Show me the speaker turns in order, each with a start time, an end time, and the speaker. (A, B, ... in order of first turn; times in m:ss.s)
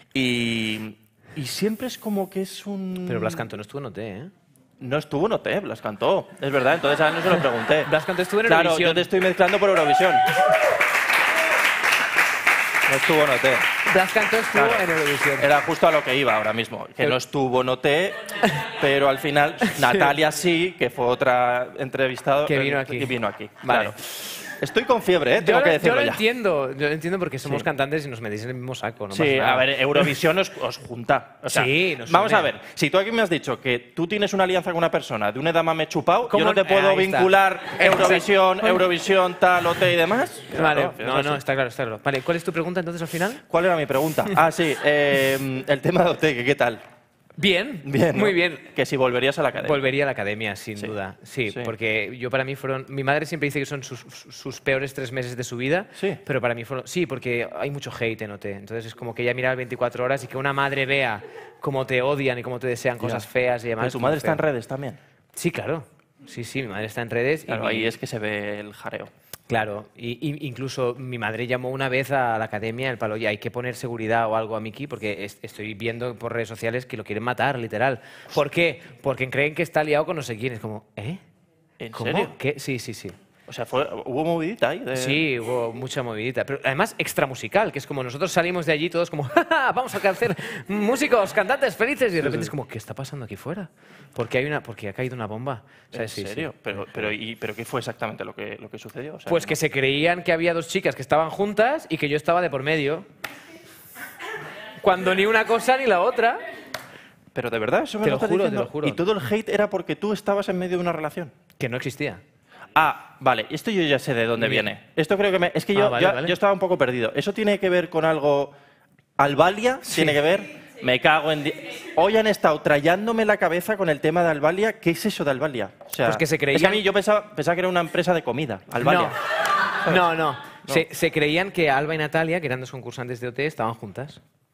0:00.1-0:03.5 A
0:03.0-0:04.3 B
0:04.8-0:07.9 A
0:07.8-0:09.1 B
0:08.5-0:10.3 A
0:12.9-0:13.8 A
0:13.8-0:15.5 B
0:14.5-0:26.2 A
0:22.4-0:24.2 B
0:25.4-0:30.1 B
0:29.1-0:41.4 A
0:31.5-0:32.5 B
0:36.3-0:38.9 B
0:40.5-0:43.4 B
0:43.5-0:46.8 A
0:47.4-0:48.7 B
0:47.8-0:49.9 A
0:49.6-1:04.4 B
0:51.5-0:51.7 A
0:56.0-0:56.2 A
1:03.0-1:03.3 A
1:03.8-1:05.0 A
1:05.4-1:07.9 B
1:07.5-1:09.1 A
1:09.5-1:21.2 B
1:21.8-1:22.3 A
1:21.9-1:23.2 B
1:23.5-1:25.2 A
1:24.9-1:37.1 B
1:32.2-1:32.5 A
1:35.9-1:39.6 A
1:39.3-1:43.1 B
1:44.8-1:46.4 B
1:47.4-1:51.3 A
1:48.0-1:49.0 B
1:51.6-1:52.2 B
1:52.8-1:58.5 A
1:54.4-1:54.7 B
1:55.8-1:56.3 B
1:59.2-2:09.2 A
1:59.9-2:00.2 B
2:06.0-2:06.8 B
2:08.8-2:09.2 B
2:09.9-2:14.2 B